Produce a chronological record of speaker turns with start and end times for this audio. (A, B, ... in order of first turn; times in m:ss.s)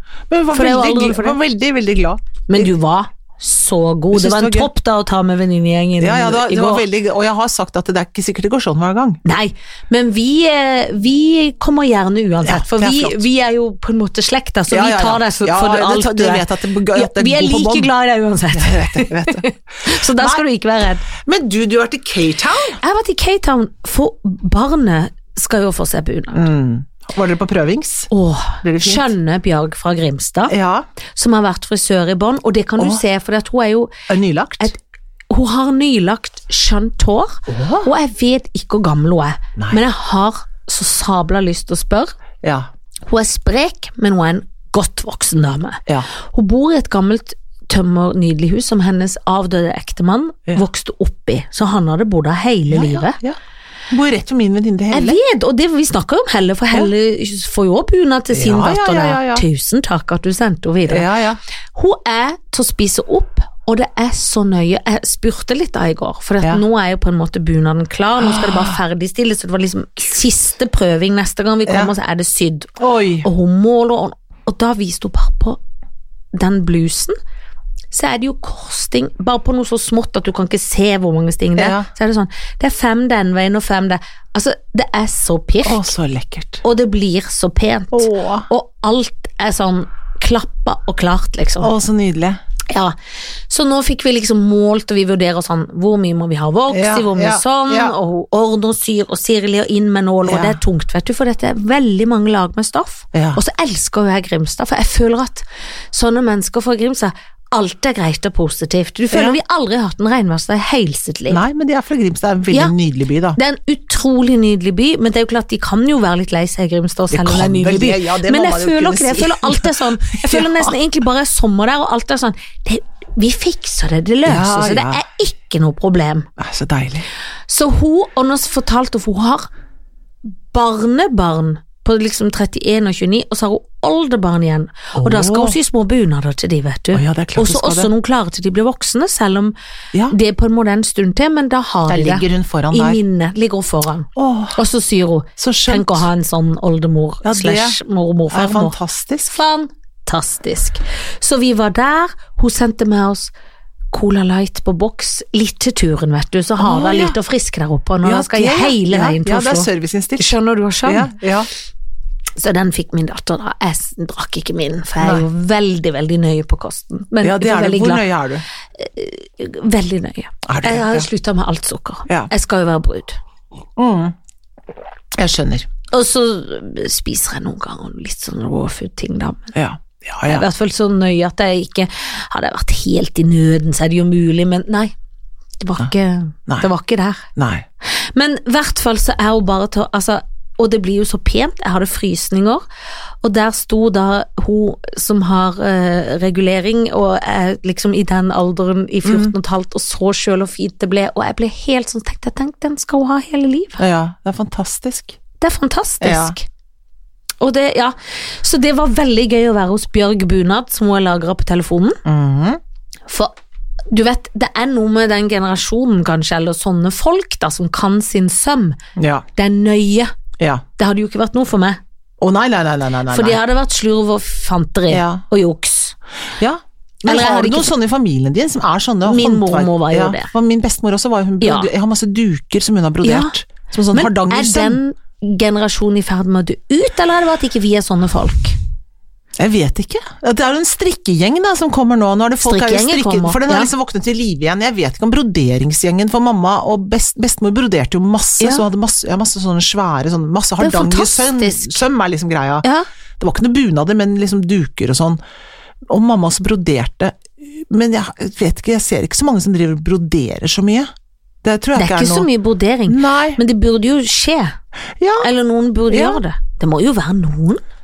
0:00.3-0:02.7 A
0:00.5-0:01.4 B
0:02.5-0:06.8 B
0:04.1-0:04.7 A
0:06.0-0:09.2 A
0:09.2-0:21.1 B
0:12.4-0:13.2 A
0:14.7-0:17.9 A
0:18.5-0:20.4 A
0:21.1-0:22.8 A
0:22.8-0:26.4 B
0:26.3-0:28.1 A
0:28.1-0:30.5 B
0:28.6-0:29.1 A
0:30.5-0:30.9 A
0:31.2-0:33.9 B
0:34.1-0:34.7 A
0:35.3-0:42.2 B
0:37.5-0:37.9 A
0:43.1-0:53.2 B
0:52.7-0:53.4 A
0:53.9-0:55.2 A
0:54.9-1:01.1 B
0:58.3-0:59.4 A
1:00.9-1:01.4 A
1:01.8-1:15.6 B
1:08.2-1:08.8 A
1:12.8-1:13.3 A
1:16.3-1:17.2 B
1:17.9-1:25.9 B
1:21.6-1:21.9 A
1:25.6-1:26.6 A
1:26.6-1:31.7 B
1:27.9-1:28.5 A
1:31.6-1:32.4 A
1:32.7-1:33.0 B
1:33.5-1:51.4 B
1:36.7-1:38.0 A
1:40.2-1:40.6 A
1:43.1-1:43.4 A
1:49.1-1:49.4 A
1:51.3-1:53.4 A
1:53.4-2:06.3 B
1:57.1-2:00.8 A
2:04.2-2:05.0 A
2:06.4-2:07.1 A
2:07.5-2:09.5 B
2:10.5-2:19.5 B
2:15.0-2:15.6 A
2:16.9-2:17.9 A
2:20.1-2:28.8 B
2:21.9-2:23.0 A
2:24.2-2:24.6 A
2:25.4-2:26.1 A
2:27.2-2:27.8 A
2:28.3-2:29.4 A
2:29.3-2:33.3 B
2:33.9-2:41.1 B
2:36.6-2:37.2 A
2:38.0-2:41.5 A
2:42.4-2:48.1 B
2:45.0-2:45.3 A
2:47.2-2:48.4 A
2:48.8-2:53.2 B
2:50.5-2:51.1 A
2:53.8-2:54.2 A
2:55.2-2:55.7 A
2:55.9-2:59.5 B
2:59.5-3:00.5 A
3:00.3-3:04.9 B
3:05.6-3:07.3 B
3:07.4-3:07.6 A
3:07.9-3:12.6 B
3:13.2-3:23.8 B
3:19.0-3:19.3 A
3:23.8-3:25.2 A
3:25.4-3:26.5 B
3:26.0-3:26.4 A
3:27.4-3:32.0 B
3:32.0-3:32.6 A
3:33.1-3:33.3 B
3:33.9-3:38.8 B
3:39.0-3:39.2 A
3:39.4-3:40.1 B
3:40.4-3:40.6 A
3:40.8-3:41.8 B
3:42.2-3:43.4 A
3:43.1-3:46.0 B
3:44.9-3:45.2 A
3:46.4-3:54.8 A
3:47.0-3:47.7 B
3:49.0-3:50.3 B
3:51.4-3:51.7 B
3:53.0-3:53.3 B
3:53.9-3:58.6 B
3:59.4-4:12.7 A
4:02.4-4:03.7 B
4:10.6-4:11.8 B
4:13.2-4:15.2 A
4:15.9-4:20.9 A
4:21.4-4:22.3 A
4:21.8-4:24.6 B
4:22.9-4:23.4 A
4:25.0-4:25.3 A
4:25.2-4:27.6 B
4:25.9-4:26.2 A